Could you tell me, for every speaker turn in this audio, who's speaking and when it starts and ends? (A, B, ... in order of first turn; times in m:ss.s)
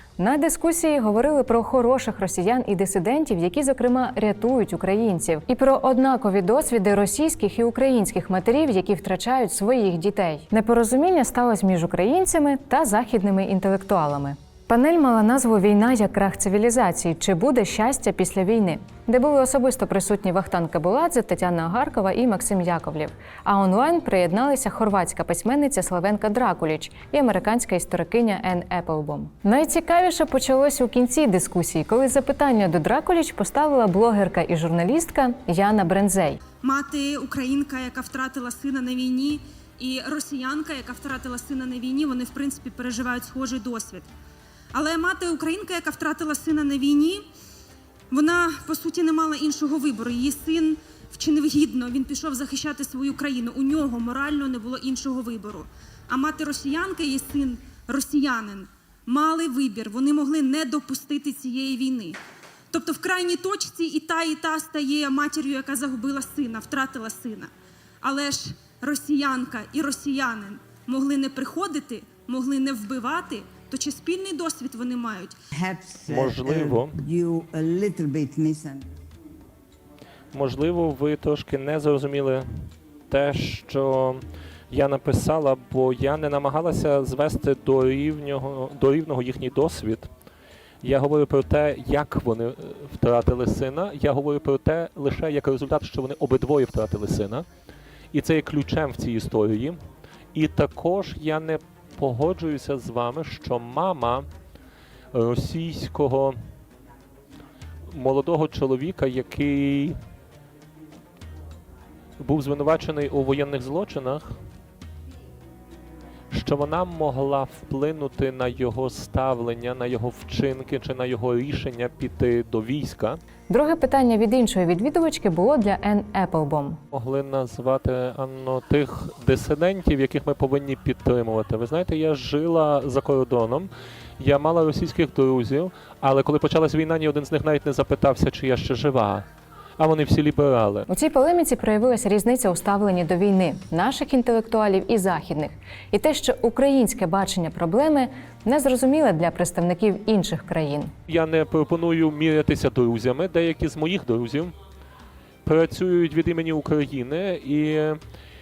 0:00.2-0:36.4 A
0:36.6-0:44.1 B
0:44.7-0:47.3 B
0:48.1-1:02.2 B
1:02.7-1:07.5 B
1:08.0-1:15.4 B
1:15.6-1:18.8 C
1:16.1-1:16.9 D
1:20.3-1:22.5 D
1:23.1-1:30.1 D
1:30.8-1:37.5 D
1:38.1-1:39.8 D
1:40.3-1:44.3 D
1:45.1-1:46.4 D
1:47.9-1:50.0 D
1:52.2-1:54.3 D
1:56.3-2:03.2 D
2:03.5-2:06.8 A
2:06.9-2:19.2 D
2:19.8-2:20.9 D
2:20.9-2:30.9 A
2:31.1-2:34.5 D
2:35.4-2:38.0 D